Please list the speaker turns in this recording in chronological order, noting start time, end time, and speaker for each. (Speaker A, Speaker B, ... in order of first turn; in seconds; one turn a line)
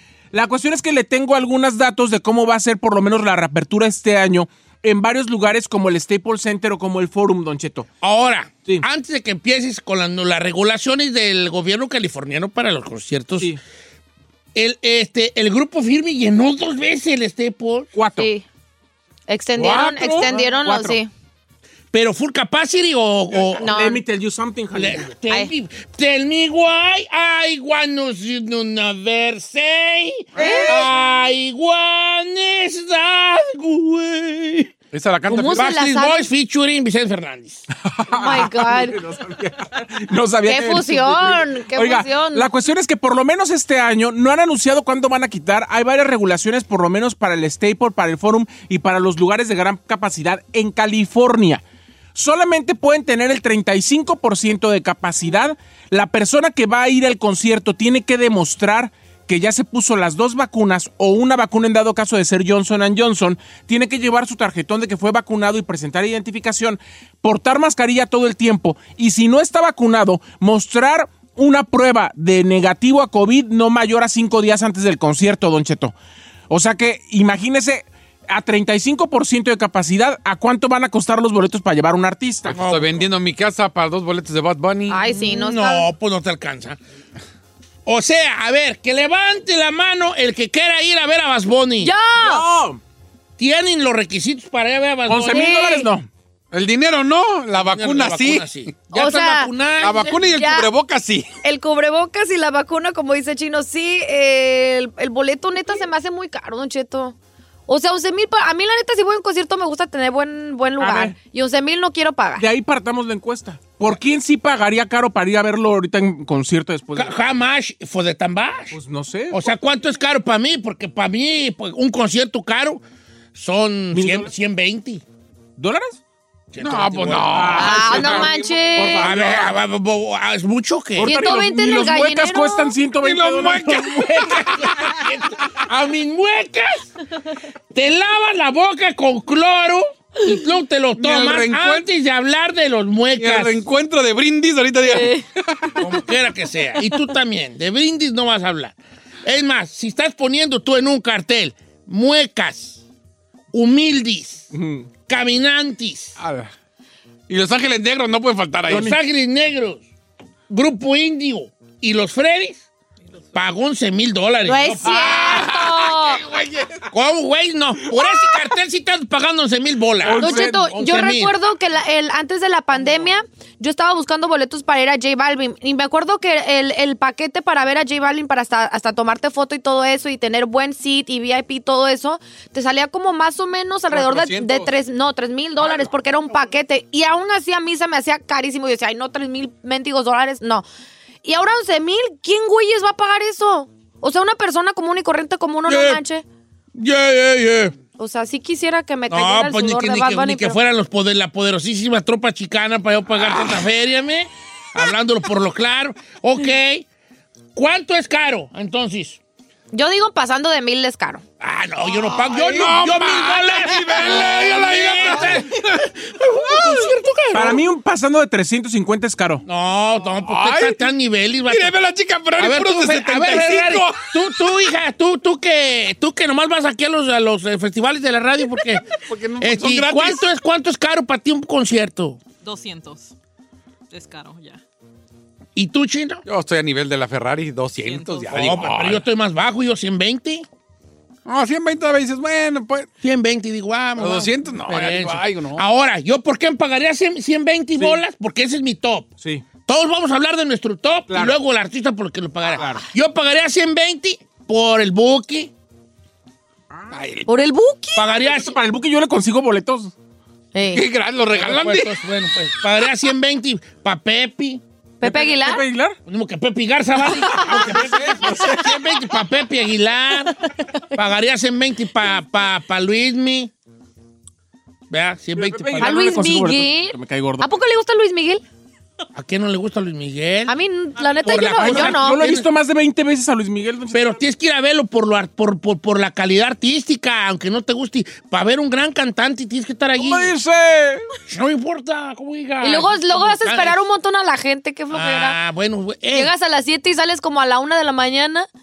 Speaker A: 0.3-7.9
Speaker B: 8.0-13.5
Speaker B: 14.6-17.9
Speaker A: 18.0-18.3
Speaker C: 18.2-18.4
Speaker C: 19.3-21.1
Speaker A: 19.6-21.0
Speaker B: 21.9-23.7
Speaker C: 23.6-24.0
Speaker A: 23.6-25.1
Speaker B: 24.7-34.7
Speaker C: 25.3-25.5
Speaker A: 30.4-30.9
Speaker C: 30.4-30.8
Speaker D: 34.9-35.7
Speaker C: 35.3-36.3
Speaker B: 35.5-37.7
Speaker A: 38.1-51.6
Speaker C: 38.1-39.0
Speaker C: 40.4-42.5
Speaker A: 52.1-75.9
Speaker A: 76.5-82.6
Speaker D: 82.5-85.0
Speaker B: 82.5-83.1
Speaker C: 84.9-85.9
Speaker B: 85.1-86.8
Speaker B: 87.9-91.9
Speaker C: 91.8-92.5
Speaker A: 92.2-92.8
Speaker B: 93.4-95.6
Speaker A: 95.1-96.1
Speaker C: 95.3-95.9
Speaker D: 96.5-98.5
Speaker B: 97.5-100.2
Speaker C: 98.9-100.7
Speaker D: 99.8-101.3
Speaker C: 101.4-107.2
Speaker C: 107.7-112.5
Speaker A: 110.8-111.2
Speaker A: 112.4-117.2
Speaker B: 117.0-118.8
Speaker A: 118.7-119.4
Speaker B: 119.3-122.8
Speaker B: 123.3-125.0
Speaker A: 123.9-124.3
Speaker A: 125.6-126.0
Speaker B: 126.5-127.8
Speaker D: 126.6-128.6
Speaker A: 127.3-129.6
Speaker C: 127.6-129.2
Speaker B: 129.0-131.2
Speaker A: 131.0-133.8
Speaker C: 131.1-132.8
Speaker D: 133.0-135.0
Speaker B: 133.6-136.9
Speaker B: 137.7-143.6
Speaker D: 141.0-141.9
Speaker D: 143.2-145.8
Speaker B: 145.8-152.8
Speaker B: 153.5-154.5
Speaker A: 154.5-154.9
Speaker B: 155.1-156.2
Speaker D: 156.2-156.5
Speaker D: 157.3-158.9
Speaker B: 158.7-159.8
Speaker A: 158.7-159.0
Speaker B: 160.5-162.7
Speaker B: 163.3-165.2
Speaker C: 164.4-166.2
Speaker D: 164.9-166.8
Speaker B: 166.9-171.4
Speaker A: 170.0-170.8
Speaker C: 170.2-190.7
Speaker A: 183.9-184.6
Speaker D: 184.1-184.6
Speaker C: 191.2-196.2
Speaker B: 195.7-196.0
Speaker B: 196.8-197.8
Speaker C: 198.0-200.6
Speaker B: 199.1-206.8
Speaker B: 207.6-209.2
Speaker C: 209.7-211.2
Speaker B: 211.4-217.6
Speaker D: 211.9-215.9
Speaker D: 216.4-216.9
Speaker A: 217.3-219.4
Speaker B: 219.4-221.8
Speaker D: 220.2-220.9
Speaker D: 221.5-224.2
Speaker B: 222.4-228.9
Speaker D: 229.0-230.2
Speaker B: 229.4-232.2
Speaker E: 232.4-233.1
Speaker E: 233.9-234.6
Speaker B: 235.6-236.2
Speaker D: 236.3-239.1
Speaker E: 237.8-238.4
Speaker B: 238.3-240.5
Speaker D: 241.3-242.9
Speaker B: 243.0-249.1
Speaker D: 244.0-245.6
Speaker B: 249.7-255.5
Speaker A: 251.1-251.4
Speaker A: 252.6-252.9
Speaker D: 256.9-257.4
Speaker C: 257.3-258.1
Speaker B: 258.0-258.6
Speaker A: 258.1-259.9
Speaker C: 260.5-260.9
Speaker D: 260.7-262.0
Speaker B: 261.3-264.6
Speaker C: 265.0-265.6
Speaker A: 265.0-266.0
Speaker B: 266.1-273.5
Speaker C: 267.2-267.7
Speaker A: 267.5-268.7
Speaker B: 274.9-276.3
Speaker A: 275.4-277.5
Speaker C: 275.8-278.4
Speaker B: 279.1-280.6
Speaker C: 280.5-282.2
Speaker A: 281.2-284.2
Speaker B: 281.2-282.5
Speaker B: 283.9-290.3
Speaker A: 290.0-291.1
Speaker B: 291.3-293.8
Speaker C: 292.6-295.4
Speaker B: 294.9-296.3
Speaker C: 296.1-298.5